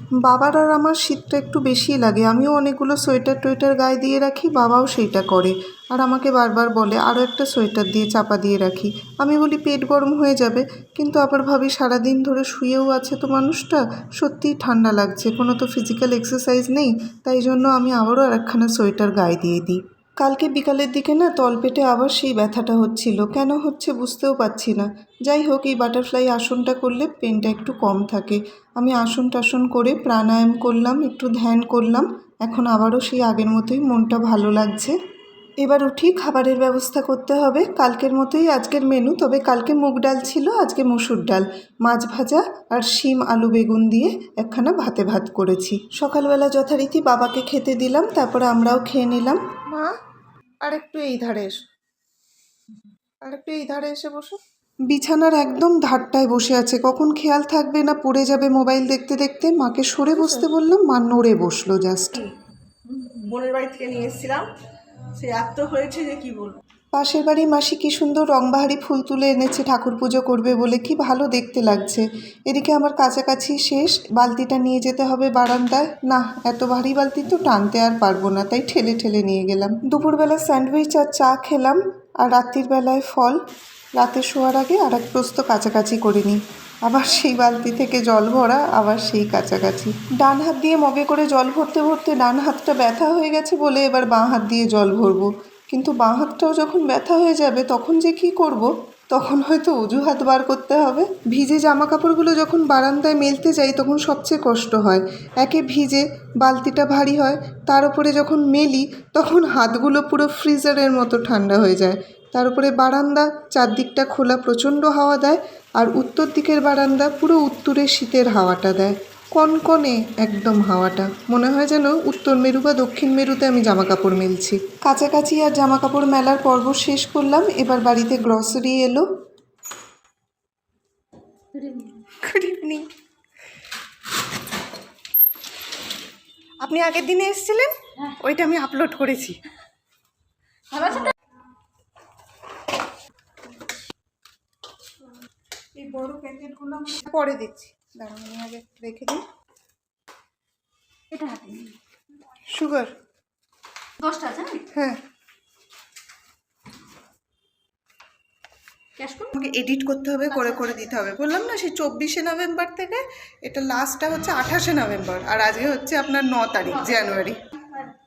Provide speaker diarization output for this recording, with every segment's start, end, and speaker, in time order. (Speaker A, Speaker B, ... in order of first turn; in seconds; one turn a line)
Speaker A: 0.2-35.0
Speaker A: 35.6-49.9
Speaker A: 50.6-51.6
Speaker A: 53.2-62.3
Speaker B: 62.8-64.5
Speaker B: 65.1-66.6
Speaker A: 66.9-83.4
Speaker A: 84.0-129.1
Speaker C: 131.6-131.9
Speaker A: 132.1-132.9
Speaker A: 136.6-139.4
Speaker C: 140.7-141.1
Speaker A: 145.8-149.2
Speaker C: 151.1-151.8
Speaker A: 152.5-152.9
Speaker C: 154.0-154.7
Speaker A: 154.7-155.0
Speaker B: 159.0-159.3
Speaker A: 159.3-167.4
Speaker C: 160.4-160.8